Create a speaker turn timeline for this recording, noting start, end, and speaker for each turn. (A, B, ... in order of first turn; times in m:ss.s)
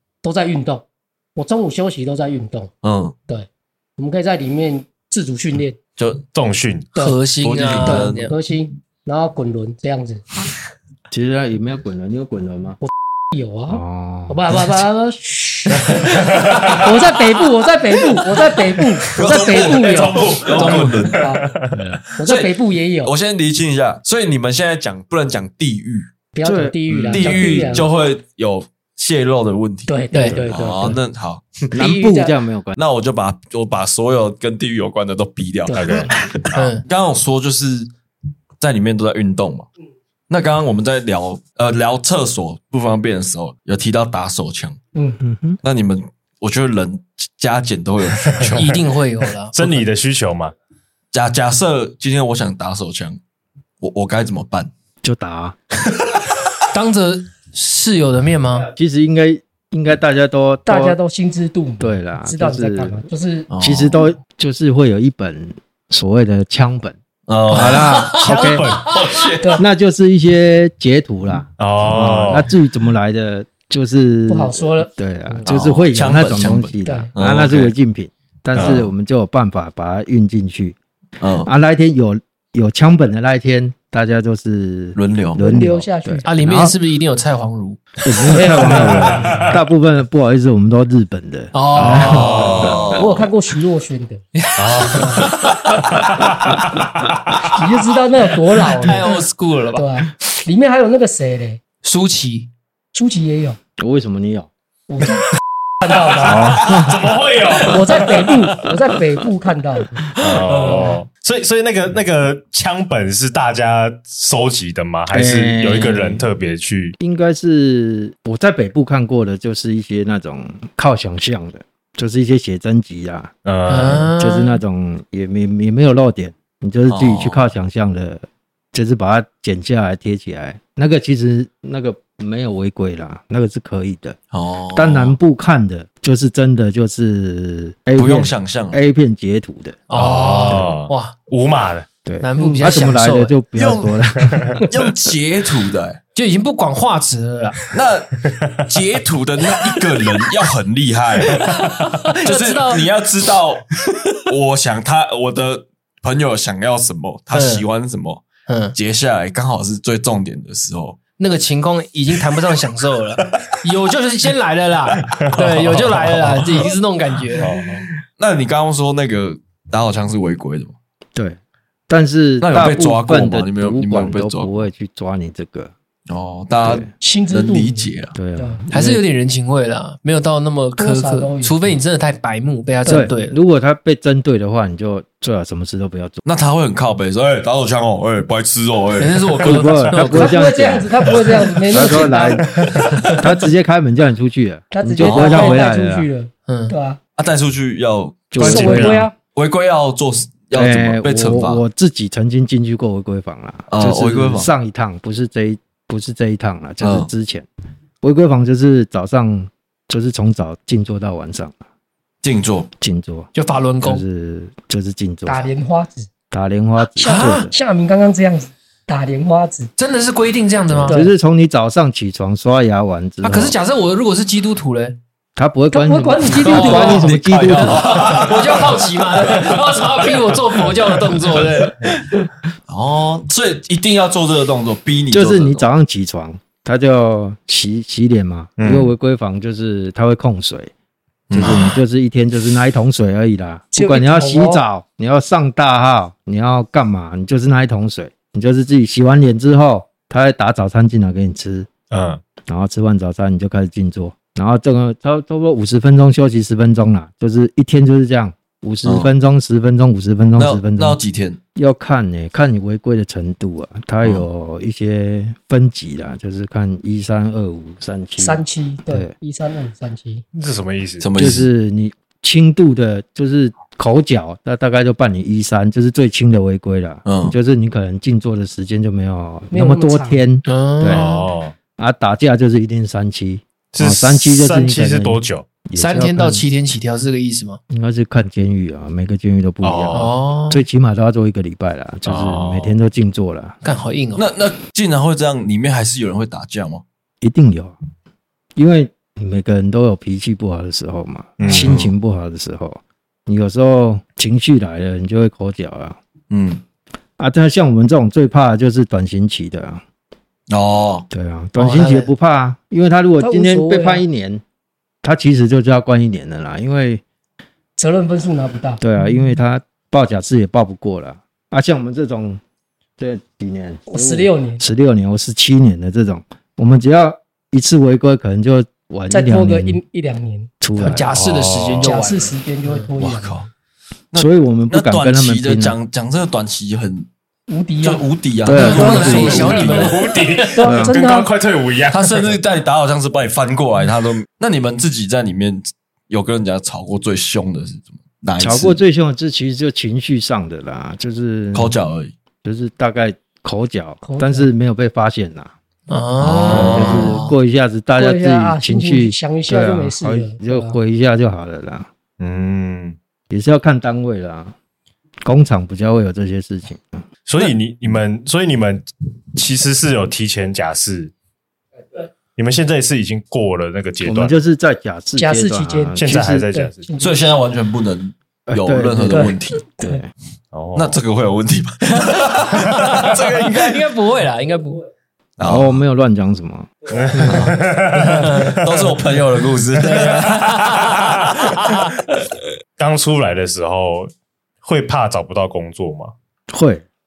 0:00.2-0:02.7 A
0:02.8-0:03.2 B
0:03.3-0:05.8 A
0:06.0-0:06.2 B
0:06.3-0:06.9 C
0:07.0-0:08.3 D
0:07.4-0:08.3 B
0:07.8-0:10.2 A
0:11.1-0:12.8 E
0:12.8-0:21.4 A
0:13.7-0:14.4 E
0:15.9-0:16.9 C
0:18.2-0:18.5 B
0:19.1-0:21.2 B
0:19.3-0:22.2 C
0:20.6-0:21.1 D
0:21.7-0:22.0 E
0:22.2-0:23.1 A
0:22.2-0:26.1 B
0:26.3-0:27.9 A
0:26.4-0:27.8 E
0:27.1-0:30.0 B
0:29.9-0:31.0 A
0:30.1-0:30.4 D
0:30.2-0:30.6 E
0:30.5-0:31.8 B
0:31.7-0:32.8 E
0:31.7-0:32.3 A
0:32.8-0:37.9 B
0:35.7-0:36.1 A
0:35.8-0:36.8 C
0:36.5-0:36.8 D
0:38.6-0:39.7 B
0:40.3-0:44.8 B
0:45.2-0:45.6 E
0:45.6-0:48.7 B
0:48.2-0:48.7 C
0:48.4-0:49.8 D
0:49.5-0:50.5 C
0:51.1-0:53.2 B
0:53.8-0:54.7 B
0:55.0-0:55.6 E
0:56.7-0:58.7 D
0:58.7-1:01.0 E
1:00.6-1:03.5 A
1:01.8-1:03.0 E
1:03.5-1:04.0 B
1:03.6-1:07.0 E
1:07.3-1:08.1 B
1:07.5-1:08.8 E
1:07.5-1:08.5 D
1:08.2-1:08.9 C
1:08.8-1:09.6 B
1:09.6-1:20.8 E
1:11.6-1:12.5 C
1:14.3-1:15.4 A
1:15.4-1:17.7 B
1:16.8-1:17.1 A
1:18.5-1:18.9 C
1:18.6-1:18.8 B
1:21.2-1:21.5 B
1:21.4-1:26.8 E
1:25.0-1:25.4 B
1:25.4-1:26.2 A
1:26.2-1:28.9 D
1:28.0-1:32.9 E
1:28.3-1:29.2 A
1:28.9-1:29.6 C
1:31.5-1:32.6 D
1:31.8-1:33.0 C
1:32.0-1:33.3 B
1:32.9-1:34.2 A
1:34.3-1:36.1 D
1:34.6-1:37.6 C
1:34.8-1:35.3 A
1:37.5-1:39.1 A
1:38.8-1:39.9 D
1:39.7-1:41.6 A
1:41.8-1:42.5 D
1:42.9-1:43.6 A
1:43.8-1:44.5 E
1:44.9-1:45.2 A
1:45.8-1:46.7 A
1:46.2-1:47.1 E
1:46.3-1:48.7 C
1:47.6-1:50.8 A
1:50.2-1:57.0 C
1:50.5-1:50.9 D
1:55.1-1:56.2 E
1:57.0-2:03.3 E
2:03.4-2:04.1 C
2:03.7-2:04.6 D
2:04.1-2:14.2 E
2:06.9-2:07.4 B
2:14.3-2:15.2 B
2:14.7-2:19.8 E
2:18.0-2:18.8 B
2:19.9-2:21.1 D
2:19.9-2:21.9 C
2:22.0-2:24.6 E
2:22.2-2:23.3 D
2:23.5-2:26.0 B
2:24.2-2:24.6 C
2:26.1-2:27.6 D
2:27.7-2:31.5 B
2:28.3-2:28.7 C
2:31.2-2:32.9 D
2:32.2-2:38.2 B
2:37.3-2:37.6 D
2:38.5-2:38.7 D
2:38.7-2:41.0 B
2:41.2-2:47.5 D
2:45.0-2:46.7 C
2:47.4-2:47.8 C
2:48.2-2:50.7 B
2:51.2-2:55.7 E
2:52.4-2:54.5 B
2:56.1-2:58.1 B
2:56.6-2:56.9 E
2:57.0-2:58.6 A
2:58.1-2:59.0 E
2:58.7-3:03.4 D
3:00.8-3:01.5 A
3:02.9-3:06.2 E
3:06.2-3:09.6 B
3:09.0-3:10.8 D
3:09.4-3:10.9 E
3:10.0-3:12.8 A
3:11.7-3:16.1 E
3:12.5-3:12.9 C
3:14.7-3:17.0 A
3:15.0-3:15.6 B
3:16.5-3:16.7 D
3:17.2-3:21.6 B
3:18.3-3:19.1 E
3:18.4-3:19.1 A
3:20.5-3:27.5 E
3:23.7-3:24.5 B
3:26.8-3:27.1 B
3:28.0-3:31.6 E
3:32.2-3:32.7 B
3:32.8-3:35.5 E
3:33.3-3:34.0 D
3:35.2-3:36.1 A
3:36.3-3:37.5 E
3:37.0-3:39.7 A
3:37.0-3:37.5 D
3:39.8-3:41.0 D
3:40.7-3:43.5 E
3:43.2-3:45.0 D
3:45.4-3:48.2 E
3:45.7-3:47.1 A
3:46.4-3:51.8 D
3:46.7-3:55.7 B
3:55.1-4:00.7 E
3:58.6-3:58.9 C
4:01.3-4:01.8 B
4:01.3-4:11.7 E
4:03.7-4:04.6 A
4:11.9-4:12.2 C
4:12.4-4:21.0 E
4:18.8-4:19.1 B
4:20.4-4:21.4 B
4:21.6-4:29.1 E
4:28.2-4:30.2 A
4:30.3-4:31.1 C
4:31.0-4:31.5 B
4:31.2-4:41.1 E
4:37.0-4:37.4 B
4:39.5-4:40.2 A
4:40.4-4:41.2 D
4:40.8-4:41.6 C
4:41.8-4:46.4 E
4:43.7-4:45.5 C
4:45.8-4:47.6 D
4:47.7-4:53.6 E
4:49.6-4:50.1 C
4:49.9-4:50.6 D
4:52.0-4:52.8 C
4:53.6-4:54.2 D
4:54.2-4:56.8 B
4:57.2-4:57.7 E
4:58.6-5:06.0 E
5:01.4-5:01.8 C
5:01.5-5:01.9 B
5:06.3-5:06.6 B
5:07.2-5:09.8 E
5:10.5-5:11.1 B
5:11.1-5:14.4 E
5:11.6-5:12.1 D
5:13.2-5:14.0 A
5:15.0-5:17.0 E
5:17.8-5:18.8 A
5:18.8-5:22.4 E
5:23.0-5:29.8 E
5:23.9-5:24.6 A
5:29.1-5:30.5 A
5:30.6-5:31.1 E
5:30.8-5:32.8 D
5:31.1-5:32.0 C
5:31.8-5:33.4 A
5:33.0-5:33.5 B
5:34.1-5:37.1 B
5:34.1-5:35.8 E
5:37.5-5:39.9 A
5:37.8-5:40.0 B
5:38.4-5:39.6 E
5:38.5-5:40.6 D
5:39.1-5:42.3 C
5:40.6-5:41.3 A
5:40.6-5:41.0 E
5:41.9-5:48.8 B
5:48.4-5:51.7 E
5:51.5-5:52.1 B
5:52.4-5:55.5 E
5:54.0-5:54.5 A
5:55.9-5:57.3 D
5:56.2-5:57.2 B
5:56.5-6:01.9 E
5:58.0-6:00.8 A
6:02.2-6:03.0 C
6:03.3-6:04.5 E
6:05.2-6:07.0 E
6:07.2-6:11.1 C
6:12.3-6:14.3 C
6:14.0-6:16.5 E
6:15.2-6:17.3 A
6:16.0-6:16.9 C
6:17.0-6:19.6 B
6:18.5-6:20.1 E
6:19.1-6:20.0 A
6:20.5-6:21.0 C
6:20.7-6:23.9 B
6:22.0-6:24.8 D
6:25.4-6:25.8 B
6:25.4-6:26.7 E
6:26.9-6:28.9 C
6:27.1-6:28.5 D
6:27.2-6:27.5 B
6:28.4-6:31.2 B
6:29.8-6:30.5 C
6:29.9-6:30.9 D
6:31.2-6:31.7 C
6:31.6-6:31.9 D
6:32.8-6:34.1 C
6:34.6-6:36.1 C
6:36.5-6:36.8 E